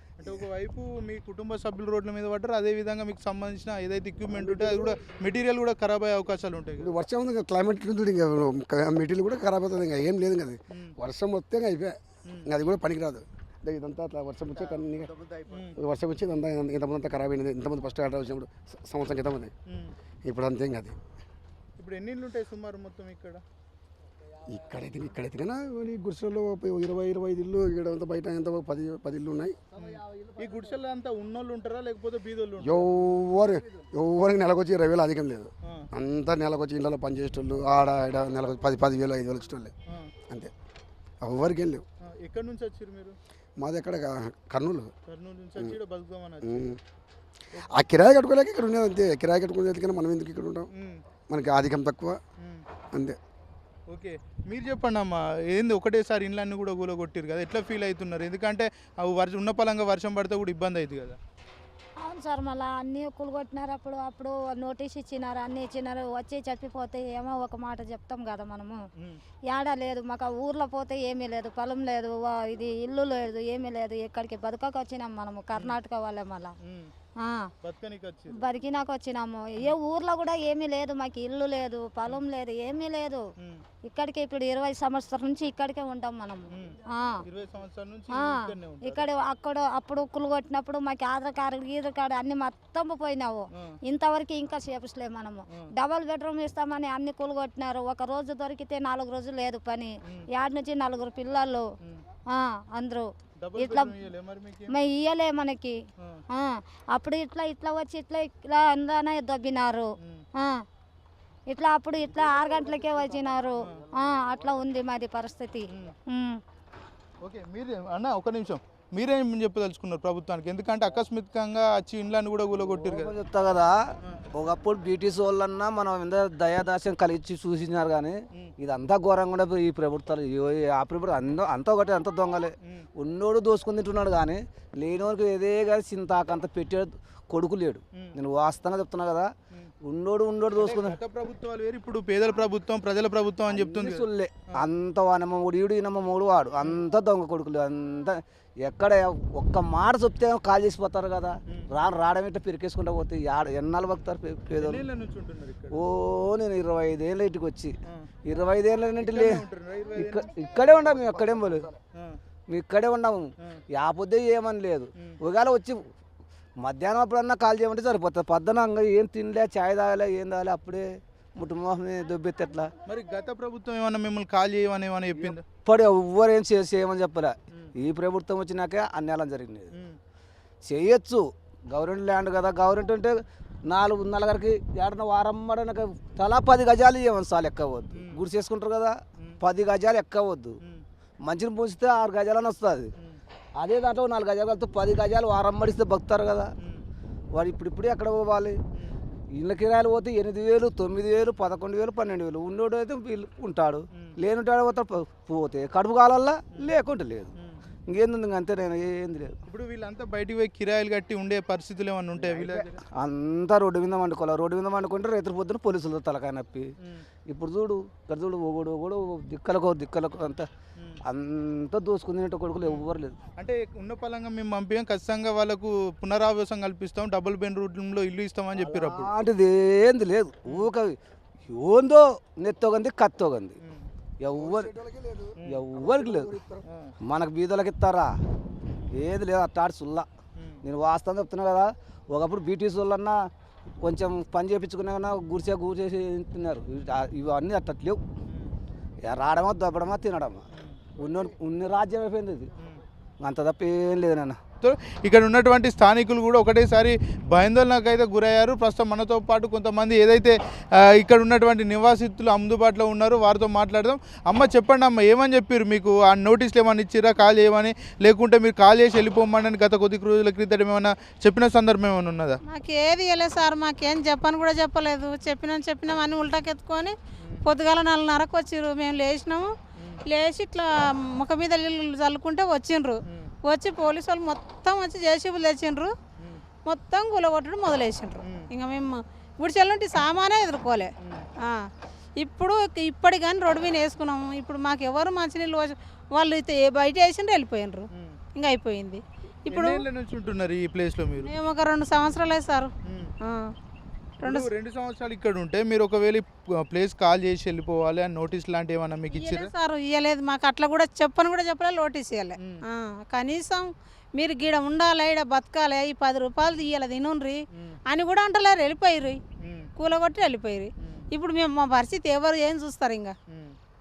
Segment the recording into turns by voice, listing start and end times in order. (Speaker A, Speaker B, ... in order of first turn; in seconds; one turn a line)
Speaker A: 0.2-7.0
Speaker B: 4.4-5.0
Speaker B: 6.8-15.1
Speaker A: 15.5-15.8
Speaker B: 15.7-19.5
Speaker A: 19.7-19.9
Speaker B: 20.2-20.9
Speaker A: 21.8-23.4
Speaker B: 24.4-29.7
Speaker A: 29.8-32.9
Speaker B: 32.6-39.7
Speaker B: 41.2-41.8
Speaker A: 42.0-43.2
Speaker B: 43.6-44.9
Speaker A: 45.1-46.6
Speaker B: 46.4-46.8
Speaker B: 47.7-50.7
Speaker A: 50.8-51.0
Speaker B: 51.3-52.2
Speaker A: 53.9-61.2
Speaker C: 62.0-68.8
Speaker C: 69.5-76.5
Speaker A: 76.6-76.9
Speaker C: 77.2-77.5
Speaker A: 77.6-78.4
Speaker C: 78.3-83.2
Speaker C: 83.8-87.2
Speaker A: 86.5-89.0
Speaker C: 88.2-101.6
Speaker C: 102.3-103.9
Speaker A: 103.4-104.7
Speaker C: 104.7-105.8
Speaker C: 106.3-110.6
Speaker C: 111.5-116.4
Speaker A: 117.2-123.1
Speaker D: 122.5-139.3
Speaker D: 139.8-141.0
Speaker A: 140.6-144.1
Speaker D: 143.5-154.8
Speaker A: 154.6-155.8
Speaker D: 155.7-161.7
Speaker A: 159.0-160.3
Speaker B: 160.8-161.5
Speaker D: 162.5-165.9
Speaker D: 166.6-172.7
Speaker A: 172.8-175.4
Speaker D: 175.1-179.7
Speaker A: 179.7-180.0
Speaker D: 180.6-190.6
Speaker A: 187.9-188.2
Speaker D: 191.2-192.9
Speaker D: 193.6-196.5
Speaker A: 196.6-196.8
Speaker D: 197.3-198.6
Speaker D: 199.3-207.3
Speaker D: 207.9-209.3
Speaker A: 209.4-212.8
Speaker D: 212.2-216.7
Speaker D: 217.3-220.5
Speaker D: 221.1-223.2
Speaker A: 222.6-229.1
Speaker D: 228.6-233.6
Speaker A: 230.4-230.7
Speaker D: 234.2-234.7
Speaker B: 234.3-236.6
Speaker D: 235.4-236.4
Speaker A: 236.7-236.9
Speaker D: 237.1-238.1
Speaker D: 238.9-240.1
Speaker A: 240.4-240.6
Speaker D: 240.6-243.2
Speaker D: 243.8-248.0
Speaker A: 248.3-248.5
Speaker D: 249.1-250.4
Speaker A: 250.5-250.8
Speaker D: 251.0-252.5
Speaker D: 253.2-254.4
Speaker A: 254.6-272.4
Speaker E: 272.5-279.5
Speaker A: 279.8-280.0
Speaker E: 280.1-285.9
Speaker A: 283.1-283.3
Speaker A: 286.2-286.4
Speaker E: 286.6-291.7
Speaker A: 288.2-288.5
Speaker A: 291.0-291.3
Speaker E: 292.2-299.8
Speaker A: 297.9-298.2
Speaker A: 299.5-301.3
Speaker E: 301.2-303.5
Speaker A: 302.8-303.1
Speaker E: 304.2-304.5
Speaker A: 304.2-309.5
Speaker E: 309.1-319.2
Speaker A: 319.4-319.7
Speaker E: 319.8-323.1
Speaker A: 320.8-321.1
Speaker A: 323.3-323.6